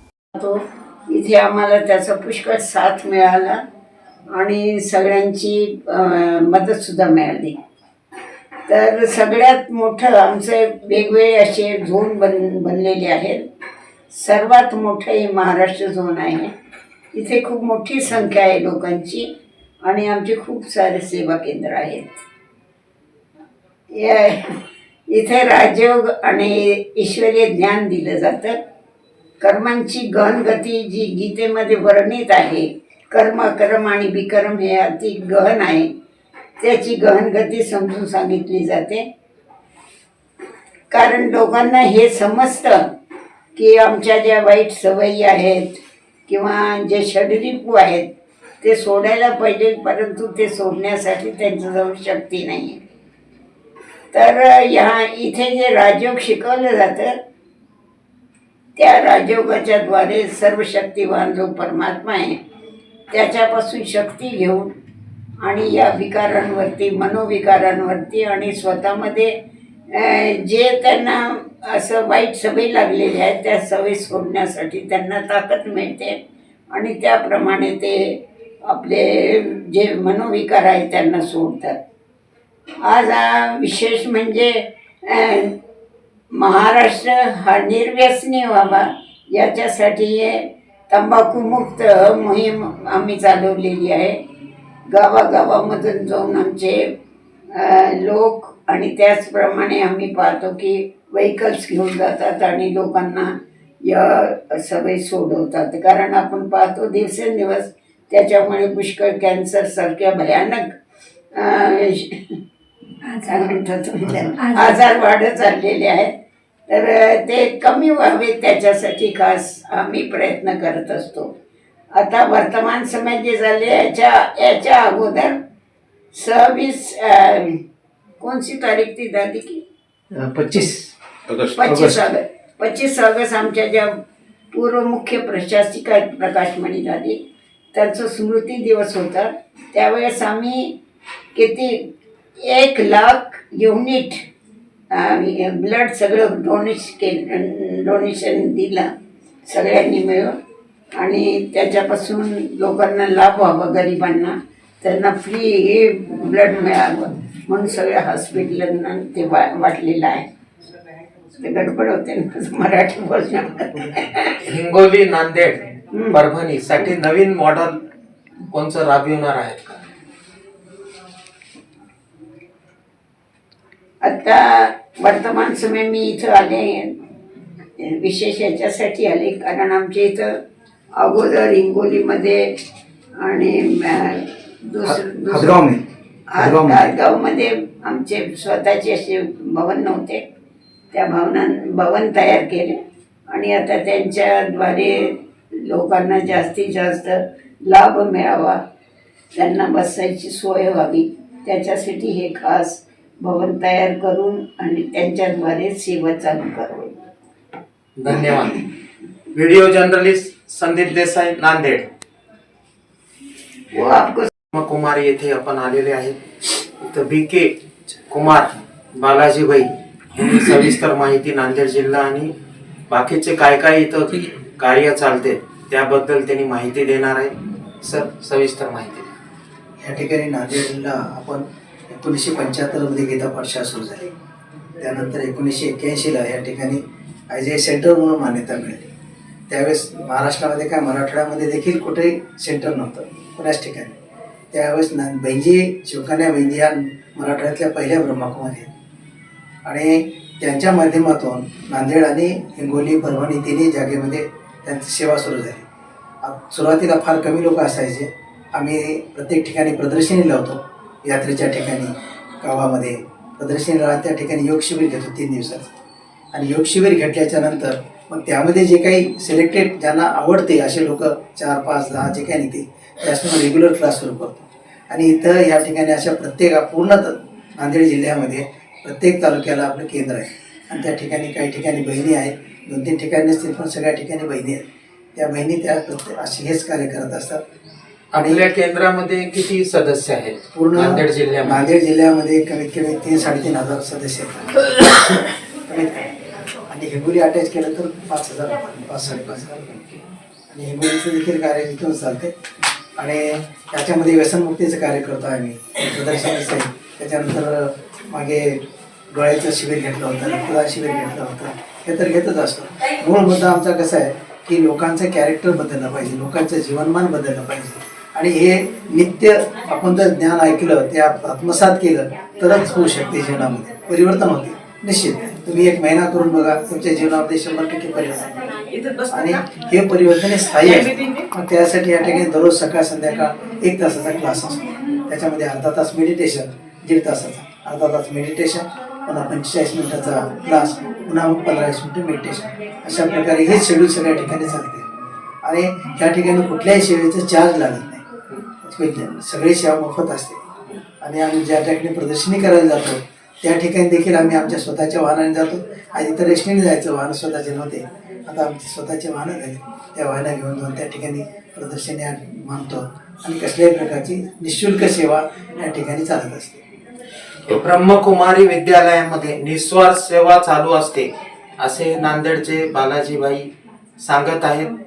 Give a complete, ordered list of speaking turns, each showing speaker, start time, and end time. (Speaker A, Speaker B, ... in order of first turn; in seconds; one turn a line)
Speaker A: 0.3-3.6
Speaker A: 4.3-7.6
Speaker A: 8.7-13.4
Speaker A: 14.1-16.5
Speaker A: 17.1-19.3
Speaker A: 19.8-22.2
Speaker A: 23.9-24.6
Speaker A: 25.1-28.6
Speaker A: 29.4-35.9
Speaker A: 36.6-39.1
Speaker A: 40.9-42.9
Speaker A: 43.5-48.1
Speaker A: 48.6-52.8
Speaker A: 54.1-57.2
Speaker A: 58.8-62.4
Speaker A: 63.1-64.7
Speaker A: 65.4-69.3
Speaker A: 69.9-76.2
Speaker A: 76.7-81.8
Speaker A: 82.8-85.6
Speaker A: 86.3-94.2
Speaker A: 94.9-96.9
Speaker A: 97.5-103.3
Speaker A: 103.8-110.7
Speaker A: 111.3-112.2
Speaker A: 113.0-116.1
Speaker A: 116.7-121.3
Speaker A: 121.9-125.4
Speaker A: 126.1-127.6
Speaker A: 128.2-129.6
Speaker B: 130.1-132.0
Speaker A: 131.5-134.0
Speaker A: 134.5-137.2
Speaker A: 137.7-140.8
Speaker A: 141.3-141.9
Speaker A: 142.4-144.2
Speaker A: 144.9-148.9
Speaker A: 149.4-150.4
Speaker A: 151.0-160.3
Speaker A: 161.3-164.3
Speaker C: 164.4-167.8
Speaker A: 165.9-166.2
Speaker C: 168.5-169.8
Speaker A: 174.0-177.0
Speaker A: 177.8-180.4
Speaker A: 181.0-182.6
Speaker A: 183.2-185.6
Speaker B: 184.9-185.8
Speaker A: 186.3-190.2
Speaker B: 186.4-186.9
Speaker A: 190.9-192.8
Speaker A: 193.3-198.6
Speaker A: 199.3-207.0
Speaker C: 208.0-208.7
Speaker C: 209.3-211.9
Speaker A: 213.7-214.3
Speaker C: 214.5-216.2
Speaker C: 216.8-217.6
Speaker C: 218.1-222.3
Speaker C: 222.9-229.1
Speaker B: 229.8-234.1
Speaker B: 234.8-238.9
Speaker B: 239.5-244.0
Speaker B: 244.5-248.7
Speaker B: 249.6-255.7
Speaker B: 256.2-265.7
Speaker B: 266.3-287.4
Speaker C: 288.1-291.7
Speaker B: 288.1-288.4
Speaker B: 290.5-296.1
Speaker B: 296.7-302.4
Speaker B: 303.0-344.9
Speaker B: 345.4-350.4
Speaker B: 351.0-366.6
Speaker C: 367.5-374.7